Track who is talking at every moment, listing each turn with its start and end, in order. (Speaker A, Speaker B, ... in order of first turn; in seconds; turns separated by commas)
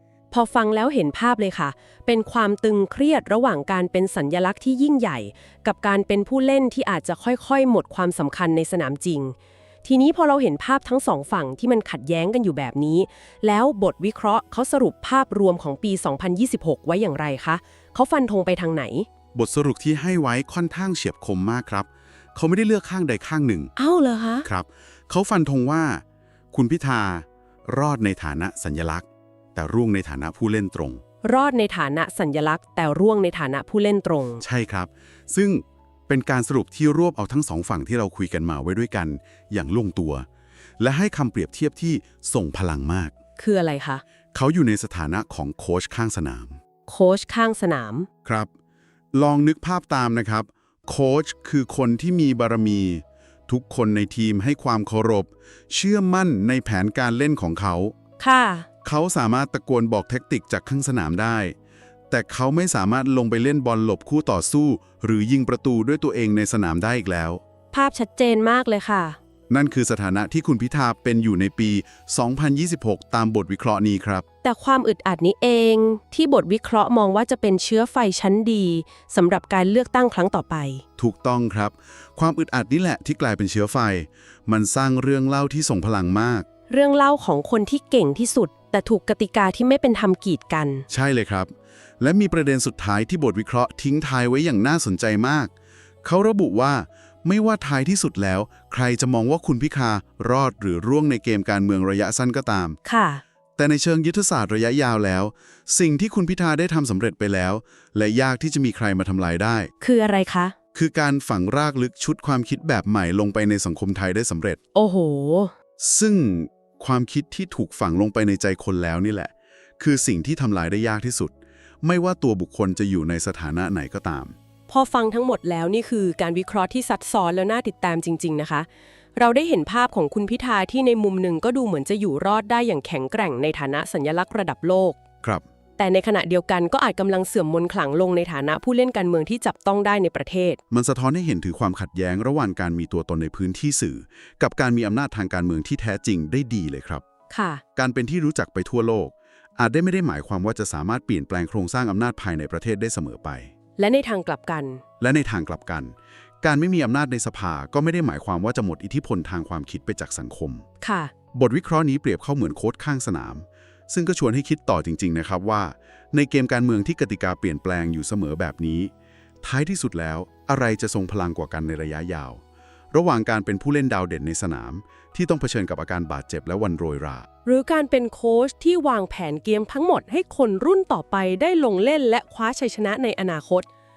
Speaker A: 0.3-19.1, Speaker B: 19.3-23.7, Speaker A: 23.8-24.5, Speaker B: 24.4-31.0, Speaker A: 31.2-34.4, Speaker B: 34.4-40.3, Speaker B: 40.8-43.1, Speaker A: 43.4-44.0, Speaker B: 44.3-46.6, Speaker A: 46.9-48.1, Speaker B: 48.2-48.5, Speaker B: 49.1-57.9, Speaker A: 58.2-58.7, Speaker B: 58.8-61.5, Speaker B: 62.1-67.4, Speaker A: 67.7-69.2, Speaker B: 69.5-74.2, Speaker A: 74.4-80.8, Speaker B: 81.0-86.5, Speaker A: 86.7-90.9, Speaker B: 90.9-95.5, Speaker B: 96.0-102.8, Speaker A: 102.8-103.2, Speaker B: 103.6-109.7, Speaker A: 109.8-110.5, Speaker B: 110.8-114.6, Speaker A: 114.8-115.5, Speaker B: 115.8-124.4, Speaker A: 124.7-135.0, Speaker A: 135.8-140.6, Speaker B: 140.7-147.0, Speaker A: 147.3-147.6, Speaker B: 147.8-153.5, Speaker A: 153.8-154.8, Speaker B: 155.0-160.7, Speaker A: 160.8-161.1, Speaker B: 161.3-168.9, Speaker B: 169.4-177.3, Speaker A: 177.4-183.7